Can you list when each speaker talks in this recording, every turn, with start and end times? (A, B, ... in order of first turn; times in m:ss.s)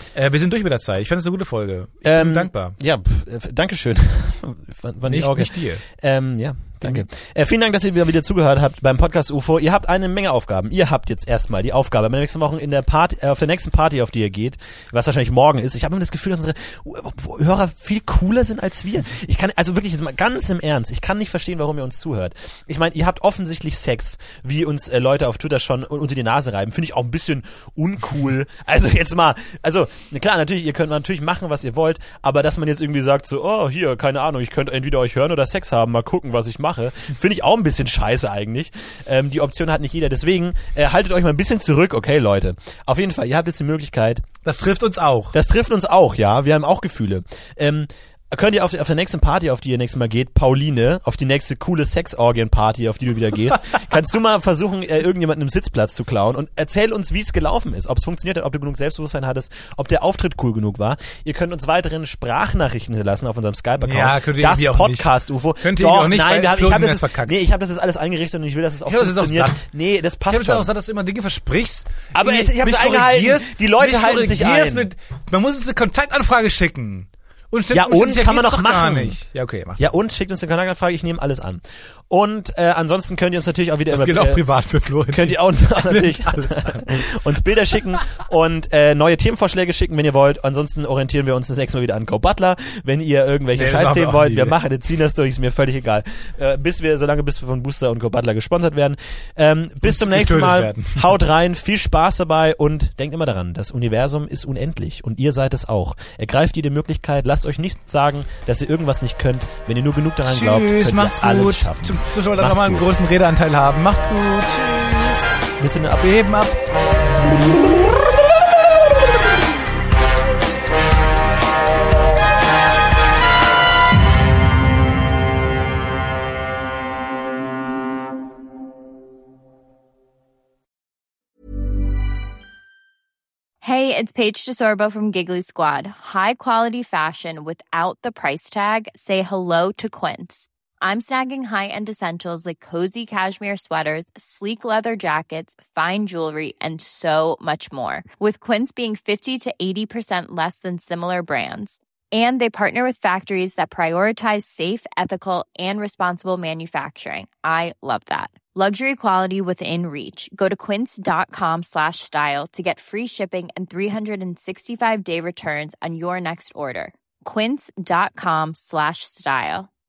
0:00.1-0:02.8 A
0:02.0-0:44.3 B
0:05.1-0:05.8 A
0:06.8-0:07.1 A
0:44.4-0:45.3 A
0:45.3-1:10.7 B
1:03.8-1:07.4 A
1:08.8-1:09.6 A
1:10.2-1:19.8 A
1:12.1-1:14.9 B
1:17.7-1:19.2 B
1:19.8-1:24.4 B
1:23.9-1:27.8 A
1:25.1-1:52.9 B
1:33.5-1:34.6 A
1:39.8-1:41.2 A
1:50.2-1:55.3 A
1:55.6-1:56.0 B
1:55.9-1:56.6 A
2:13.6-2:49.7 C